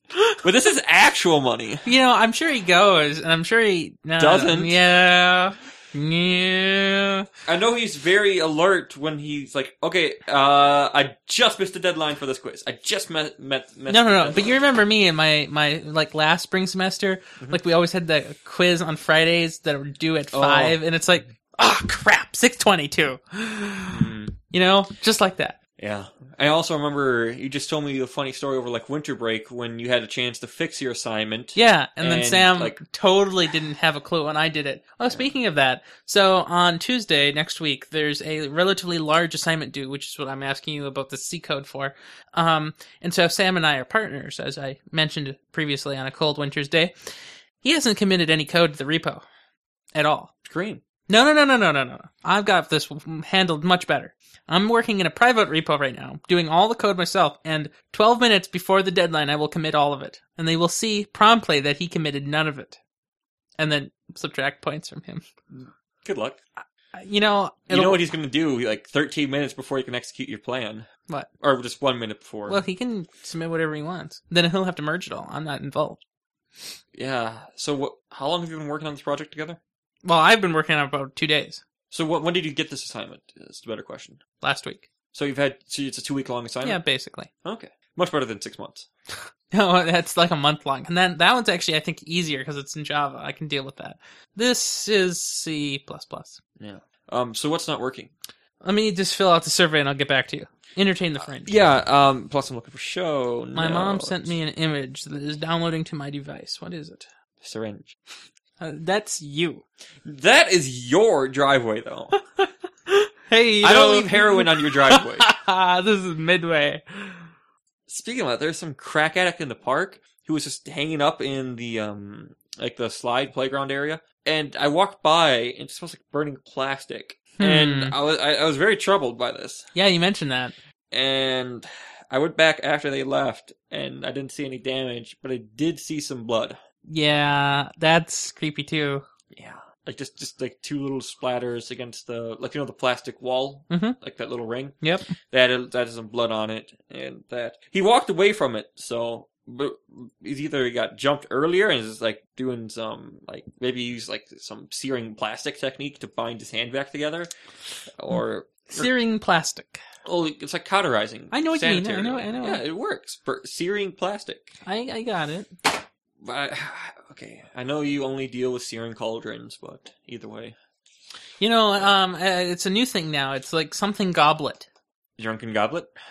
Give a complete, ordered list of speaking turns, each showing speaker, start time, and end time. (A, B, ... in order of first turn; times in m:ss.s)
0:00.4-0:01.8 A
0:01.8-0:07.3 B
0:04.2-0:04.8 A
0:07.5-0:14.5 A
0:13.9-0:25.6 B
0:20.3-0:21.3 A
0:23.9-0:24.4 A
0:25.8-0:32.8 A
0:31.5-0:46.9 B
0:35.1-0:35.3 A
0:47.6-0:49.2 B
0:49.9-0:50.3 B
0:50.4-0:50.8 A
0:51.1-1:02.8 B
1:03.6-1:05.2 B
1:05.5-1:06.4 A
1:06.6-1:08.1 B
1:07.7-1:10.9 A
1:11.4-1:12.6 A
1:12.5-1:16.0 B
1:16.9-1:19.6 A
1:20.0-1:21.6 B
1:21.9-1:24.2 A
1:24.4-1:24.9 B
1:25.1-1:26.8 A
1:26.6-1:27.3 B
1:27.4-1:28.9 A
1:29.5-1:36.4 B
1:36.6-1:38.1 A
1:38.6-1:41.5 B
1:41.4-1:44.3 A
1:43.5-1:47.1 B
1:47.4-1:48.0 A
1:48.6-1:49.6 B
1:50.0-1:52.1 A
1:52.1-1:57.3 B
1:53.6-1:55.3 A
1:57.9-2:09.7 A
2:07.4-2:07.9 B
2:09.7-2:10.5 B
2:10.9-2:16.6 A
2:16.9-2:19.0 B
2:19.3-2:37.3 A
2:23.7-2:24.0 B
2:24.8-2:25.1 B
2:37.9-2:38.9 A
2:38.7-2:39.8 B
2:40.0-2:44.6 A
2:41.3-2:42.6 B
2:44.6-2:45.5 B
2:46.2-2:50.6 A
2:51.4-2:54.7 B
2:55.2-2:55.9 A